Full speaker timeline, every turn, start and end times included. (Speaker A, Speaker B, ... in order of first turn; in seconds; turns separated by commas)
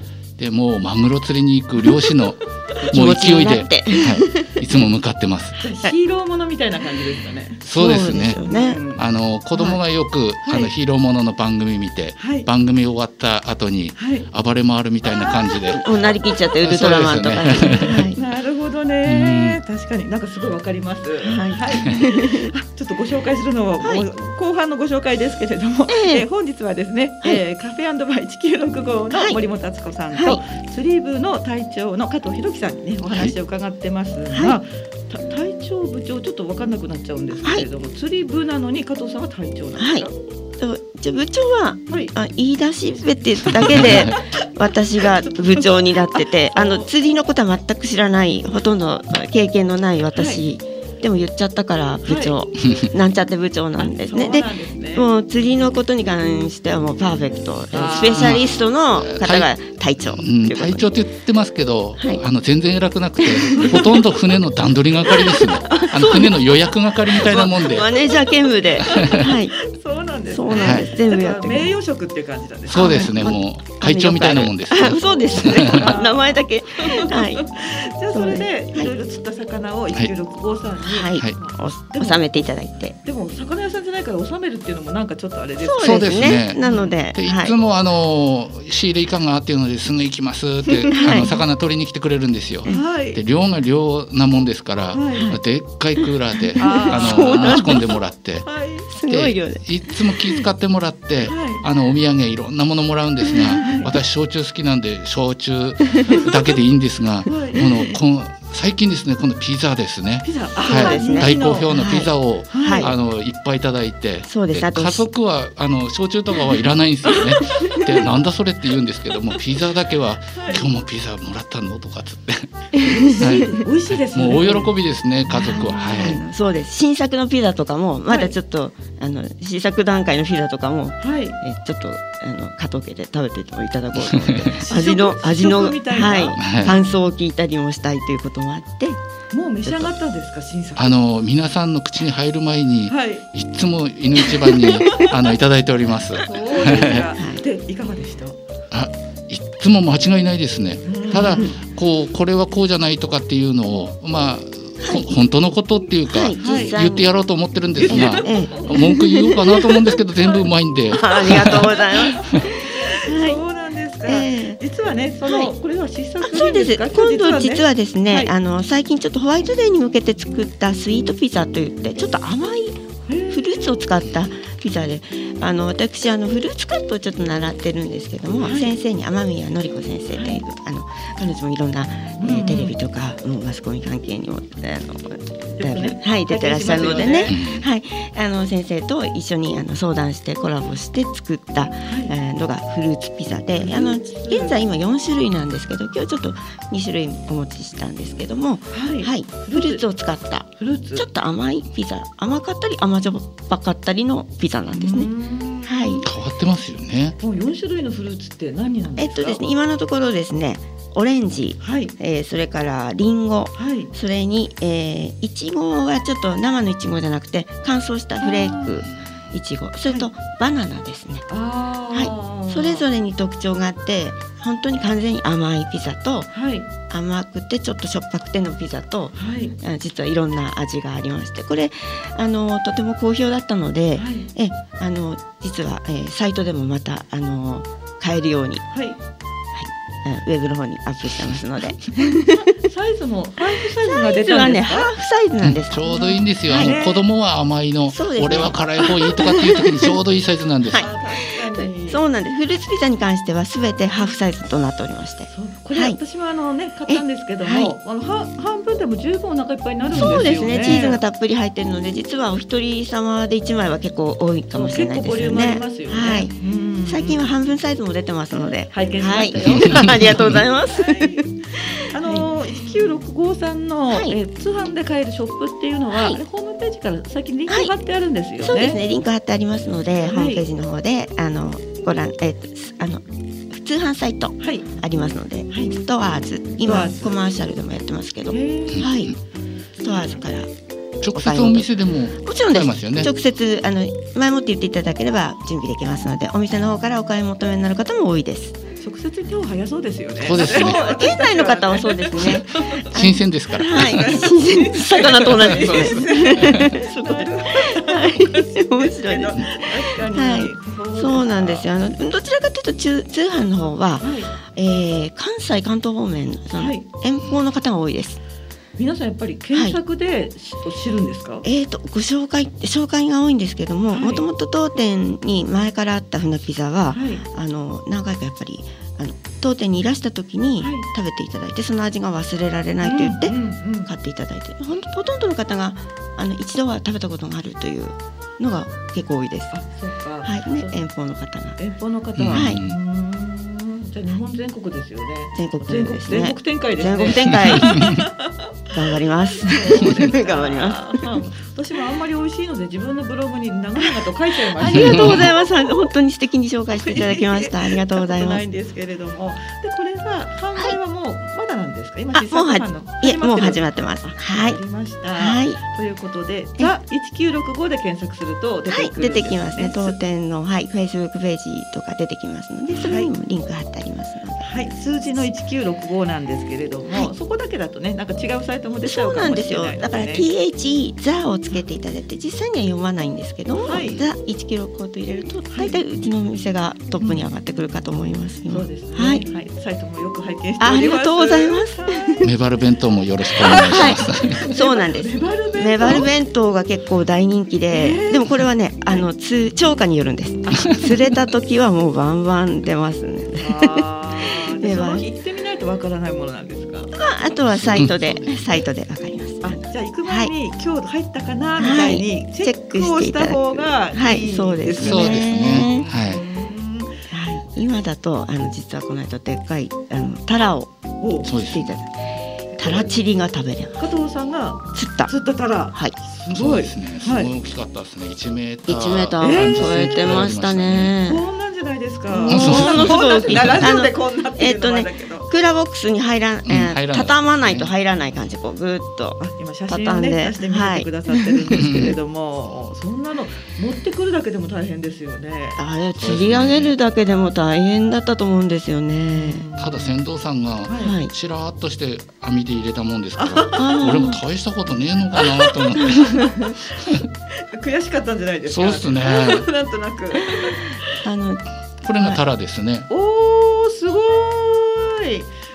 Speaker A: 0.4-5.6, Speaker B: 2.8-4.8, Speaker C: 5.6-7.6, Speaker A: 7.6-8.4, Speaker B: 7.7-8.8, Speaker C: 8.4-9.8, Speaker A: 8.9-15.8, Speaker C: 10.4-10.7, Speaker C: 12.2-12.5, Speaker C: 13.9-14.3, Speaker C: 15.1-15.7, Speaker B: 15.7-18.2, Speaker A: 16.6-18.1, Speaker C: 17.6-40.1, Speaker A: 19.0-19.6, Speaker B: 21.2-22.5, Speaker B: 25.9-26.2, Speaker B: 29.1-29.4, Speaker B: 30.1-30.4, Speaker B: 34.3-34.6, Speaker B: 39.8-40.1, Speaker B: 40.6-60.9, Speaker C: 43.6-44.5, Speaker A: 43.7-44.1, Speaker C: 45.0-46.9, Speaker C: 50.1-50.4, Speaker C: 52.0-52.4, Speaker A: 52.6-52.9, Speaker C: 53.8-55.0, Speaker C: 57.7-58.5, Speaker A: 58.0-59.5, Speaker A: 60.0-67.9, Speaker B: 63.2-64.1, Speaker C: 63.5-64.0, Speaker B: 65.1-66.5, Speaker C: 65.4-65.9, Speaker B: 67.1-69.5, Speaker C: 68.8-73.2, Speaker A: 68.9-69.2, Speaker B: 70.3-71.7, Speaker A: 70.5-70.8, Speaker A: 72.7-75.9, Speaker B: 72.7-77.5, Speaker C: 75.0-82.5, Speaker B: 78.1-78.9, Speaker B: 80.8-83.0, Speaker C: 83.0-86.9, Speaker B: 85.6-87.5, Speaker A: 85.8-86.6, Speaker A: 87.1-98.5, Speaker C: 90.8-91.4, Speaker B: 90.9-91.3, Speaker C: 92.7-93.2, Speaker C: 94.9-95.3, Speaker B: 96.5-97.9, Speaker C: 96.6-97.8, Speaker C: 98.4-98.9, Speaker B: 98.9-100.4, Speaker A: 99.0-126.2, Speaker C: 101.2-101.6, Speaker B: 103.3-103.7, Speaker C: 103.6-103.9, Speaker C: 106.1-106.3, Speaker C: 107.2-107.6, Speaker B: 107.5-107.9, Speaker C: 110.2-111.7, Speaker B: 110.6-112.9, Speaker C: 112.5-112.9, Speaker B: 114.3-115.1, Speaker C: 117.3-117.8, Speaker B: 117.6-117.9, Speaker C: 120.3-120.7, Speaker C: 122.7-124.7, Speaker B: 122.8-123.6, Speaker B: 125.3-139.0, Speaker C: 125.3-126.2, Speaker C: 128.1-128.3, Speaker C: 131.0-131.4, Speaker A: 134.0-134.6, Speaker C: 134.6-136.8, Speaker A: 136.4-136.8, Speaker C: 139.3-140.9, Speaker A: 140.8-147.0, Speaker C: 142.9-143.2, Speaker C: 144.3-145.1, Speaker C: 146.2-148.4, Speaker B: 146.7-147.4, Speaker A: 148.7-161.8, Speaker C: 150.8-151.6, Speaker B: 154.8-155.1, Speaker B: 156.1-157.1, Speaker C: 156.4-156.8, Speaker C: 157.8-159.0, Speaker B: 157.9-159.8, Speaker B: 160.9-163.4, Speaker C: 161.0-168.3, Speaker B: 164.1-164.6, Speaker B: 165.2-165.5, Speaker B: 166.2-172.8, Speaker C: 173.1-173.4, Speaker B: 173.3-205.1, Speaker C: 178.4-178.7, Speaker C: 182.2-182.7, Speaker C: 185.6-187.4, Speaker A: 187.3-187.6, Speaker C: 191.8-192.1, Speaker C: 193.6-194.6, Speaker C: 198.7-199.8, Speaker C: 200.6-201.1, Speaker C: 204.7-206.1, Speaker B: 205.6-206.0, Speaker A: 206.0-207.2, Speaker C: 207.2-209.4, Speaker B: 209.0-221.2, Speaker C: 211.6-211.9, Speaker C: 213.6-213.9, Speaker C: 218.2-218.8, Speaker C: 221.3-222.8, Speaker B: 221.9-226.3, Speaker C: 226.3-226.7, Speaker B: 226.9-238.6, Speaker C: 229.1-229.5, Speaker C: 233.9-234.3, Speaker C: 238.7-239.0, Speaker B: 239.5-242.5, Speaker C: 242.0-244.9, Speaker B: 243.8-245.9, Speaker A: 245.4-250.8, Speaker C: 245.8-247.0, Speaker B: 246.5-246.8, Speaker B: 247.9-249.9, Speaker B: 250.7-256.0, Speaker C: 250.8-252.0, Speaker C: 255.3-261.0, Speaker B: 256.9-257.7, Speaker B: 259.9-266.3, Speaker C: 264.5-267.3, Speaker B: 266.9-272.3, Speaker C: 268.7-278.8, Speaker A: 269.7-270.2, Speaker B: 273.9-274.2, Speaker B: 275.9-276.2, Speaker B: 277.5-277.7, Speaker B: 278.4-289.1, Speaker C: 280.0-280.4, Speaker C: 284.4-284.7, Speaker C: 285.5-285.7, Speaker C: 286.6-287.2, Speaker C: 288.3-288.9, Speaker A: 288.7-289.1, Speaker B: 289.8-290.5, Speaker C: 289.8-290.2, Speaker A: 291.0-293.1, Speaker B: 291.1-291.7, Speaker B: 292.2-298.6, Speaker C: 298.8-302.9, Speaker A: 300.2-300.8, Speaker B: 300.4-318.2, Speaker A: 302.9-304.2, Speaker C: 303.6-311.7, Speaker A: 305.2-306.7, Speaker C: 314.0-314.3, Speaker C: 316.6-316.8, Speaker C: 318.8-321.4, Speaker B: 321.4-339.5, Speaker C: 323.9-324.2, Speaker C: 326.9-327.2, Speaker C: 330.6-330.9, Speaker C: 332.8-333.9, Speaker C: 339.5-340.7, Speaker B: 340.2-341.6, Speaker C: 341.6-348.4, Speaker A: 342.2-342.8, Speaker B: 342.3-342.6, Speaker B: 345.3-348.0, Speaker B: 348.7-351.1, Speaker C: 349.3-355.9, Speaker B: 354.5-358.4, Speaker A: 354.7-355.2, Speaker C: 356.7-370.0, Speaker B: 362.1-364.6, Speaker B: 365.1-365.6, Speaker B: 368.7-374.5, Speaker C: 372.7-373.1, Speaker C: 374.4-380.3, Speaker B: 378.9-389.2, Speaker C: 383.6-384.0, Speaker C: 385.5-385.8, Speaker C: 387.0-387.3, Speaker C: 388.5-392.2, Speaker B: 390.6-392.3, Speaker A: 392.2-394.4, Speaker B: 393.3-405.1, Speaker C: 393.4-396.1, Speaker C: 397.7-399.1, Speaker C: 400.6-400.9, Speaker C: 403.4-406.9, Speaker B: 406.9-410.3, Speaker A: 407.5-408.5, Speaker C: 409.4-417.0, Speaker B: 411.6-415.8, Speaker A: 414.8-416.2, Speaker B: 417.1-420.7, Speaker C: 421.0-421.3, Speaker B: 421.2-423.8, Speaker A: 421.2-421.7, Speaker C: 422.5-422.9, Speaker C: 423.8-427.3, Speaker B: 424.7-425.1, Speaker A: 426.3-430.9, Speaker B: 428.7-431.2, Speaker C: 429.2-429.6, Speaker C: 431.1-435.3, Speaker B: 432.1-441.9, Speaker A: 432.3-433.6, Speaker A: 436.4-437.7, Speaker C: 439.2-445.6, Speaker A: 441.5-441.9, Speaker B: 445.6-449.4, Speaker A: 446.0-446.7, Speaker C: 449.1-450.0, Speaker A: 449.6-457.0, Speaker C: 450.7-450.9, Speaker B: 450.8-451.1, Speaker C: 453.2-454.2, Speaker B: 453.6-454.2, Speaker C: 455.2-456.8, Speaker B: 455.8-456.6, Speaker C: 457.3-460.9, Speaker A: 458.5-459.5, Speaker B: 461.0-461.4, Speaker A: 461.8-462.9, Speaker B: 461.9-462.2, Speaker C: 462.9-465.3